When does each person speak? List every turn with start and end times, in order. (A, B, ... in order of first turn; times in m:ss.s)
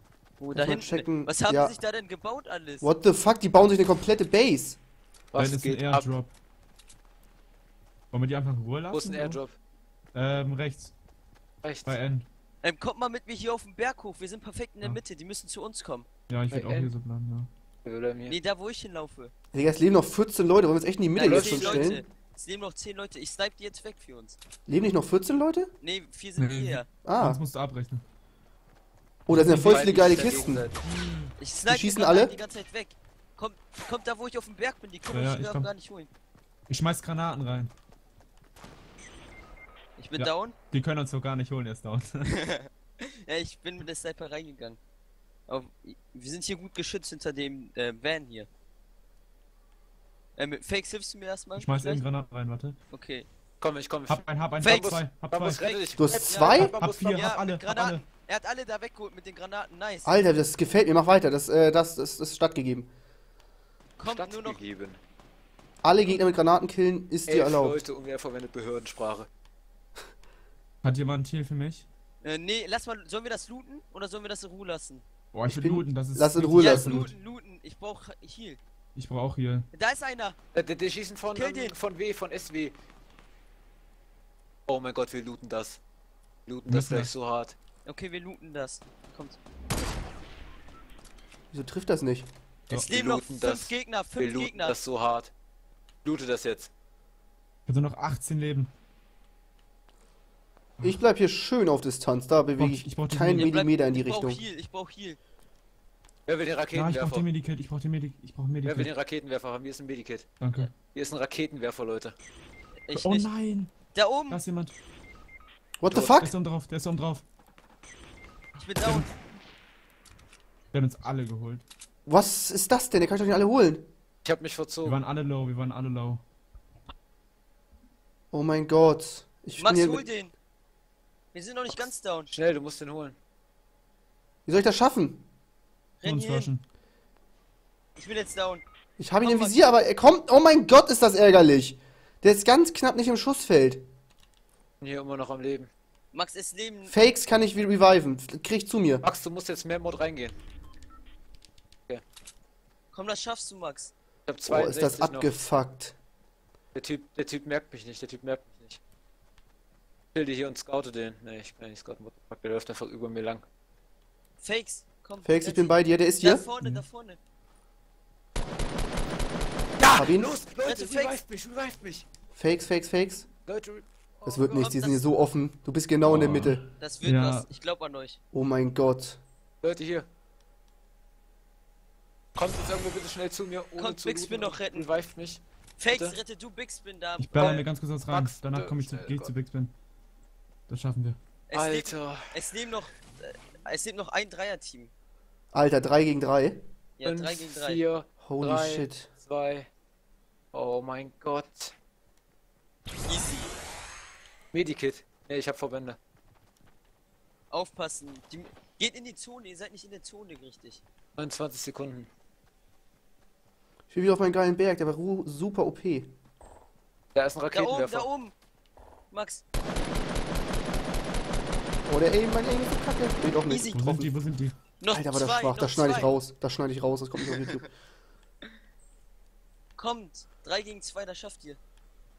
0:00.4-0:02.9 A
0:00.6-0:01.8 B
0:02.8-0:04.8 B
0:05.3-0:06.2 C
0:05.4-0:06.3 D
0:08.1-0:09.4 D
0:08.9-0:09.6 C
0:10.1-0:10.9 D
0:11.6-0:12.0 C
0:11.8-0:12.3 D
0:12.6-0:16.1 A
0:16.3-0:17.5 D
0:16.5-0:16.9 C
0:17.8-0:18.4 C
0:18.3-0:19.3 A
0:19.5-0:22.0 B
0:21.2-0:24.4 A
0:21.2-0:21.9 C
0:24.7-0:25.7 B
0:25.8-0:26.9 A
0:26.4-0:28.0 D
0:27.0-0:27.4 B
0:29.3-0:30.7 B
0:29.3-0:31.3 D
0:29.6-0:30.8 C
0:31.4-0:36.1 A
0:31.7-0:32.4 B
0:35.1-0:35.7 D
0:36.7-0:37.7 D
0:40.0-0:40.6 A
0:40.2-0:42.3 D
0:42.4-0:44.8 A
0:45.5-0:48.5 A
0:50.4-0:52.0 A
0:51.6-0:52.8 D
0:52.9-0:53.3 A
0:53.6-0:57.3 C
0:54.1-0:55.7 D
0:54.6-0:55.0 A
0:56.0-0:56.8 B
0:56.3-1:00.2 A
0:56.5-0:58.0 D
1:00.0-1:02.9 B
1:04.0-1:04.6 A
1:04.1-1:05.0 C
1:05.8-1:07.8 B
1:07.3-1:09.3 C
1:10.8-1:11.9 D
1:12.2-1:15.0 A
1:15.3-1:17.2 D
1:15.5-1:17.1 B
1:16.6-1:18.6 A
1:19.0-1:19.7 D
1:19.7-1:20.4 A
1:20.5-1:22.8 C
1:21.3-1:21.8 A
1:24.7-1:25.8 C
1:26.5-1:27.6 C
1:26.7-1:27.1 D
1:27.8-1:29.4 A
1:31.5-1:32.3 B
1:32.7-1:34.8 A
1:32.8-1:35.3 C
1:36.0-1:36.7 C
1:37.7-1:38.7 D
1:40.8-1:44.4 B
1:42.6-1:43.5 D
1:43.4-1:45.2 A
1:46.3-1:47.3 C
1:46.7-1:48.9 D
1:48.6-1:52.2 C
1:50.4-1:50.7 D
1:52.8-1:53.3 A
1:52.9-1:53.7 D
1:53.9-1:54.4 A
1:54.3-1:54.7 D
1:55.8-1:56.4 B
1:55.9-1:56.2 C
1:56.2-1:57.2 D
1:58.6-1:59.1 A
1:58.8-1:59.1 D
2:00.7-2:01.6 D
2:02.1-2:03.9 B
2:04.2-2:05.0 C
2:04.8-2:06.2 D
2:08.3-2:10.2 B
2:09.6-2:10.3 A
2:11.3-2:12.3 A
2:11.7-2:13.2 C
2:14.5-2:15.2 B
2:16.0-2:16.5 A
2:16.0-2:16.6 D
2:18.0-2:18.6 A
2:19.0-2:23.8 B
2:19.2-2:19.6 A
2:24.8-2:25.7 C
2:26.1-2:27.0 A
2:26.9-2:29.0 B
2:29.0-2:30.4 C
2:32.9-2:33.9 A
2:34.3-2:35.4 C
2:34.5-2:36.0 B
2:36.8-2:38.8 C
2:40.1-2:43.4 C
2:44.4-2:47.2 A
2:45.2-2:46.5 B
2:49.8-2:52.1 C
2:49.9-2:50.4 B
2:50.6-2:51.2 A
2:52.3-2:53.3 B
2:53.5-2:54.8 C
2:54.3-2:56.7 B
2:54.5-2:55.1 A
2:56.0-2:57.5 D
2:56.8-2:58.2 A
2:58.3-2:59.2 B
2:59.6-3:00.1 C
3:02.4-3:06.2 C
3:03.8-3:05.0 A
3:05.8-3:07.6 A
3:07.2-3:09.8 D
3:07.4-3:09.3 C
3:10.7-3:11.2 D
3:11.5-3:14.9 A
3:11.5-3:12.6 C
3:15.5-3:16.6 B
3:17.0-3:17.8 A
3:17.0-3:19.7 C
3:18.2-3:19.1 B
3:20.5-3:21.8 C
3:23.0-3:23.5 A
3:24.5-3:26.0 C
3:27.5-3:30.8 A
3:31.2-3:32.1 C
3:33.9-3:36.1 B
3:37.2-3:38.1 C
3:37.5-3:38.4 A
3:39.1-3:39.4 A
3:41.9-3:44.1 B
3:43.5-3:43.8 A
3:43.7-3:44.6 D
3:44.8-3:46.2 A
3:44.9-3:47.7 B
3:49.8-3:51.6 A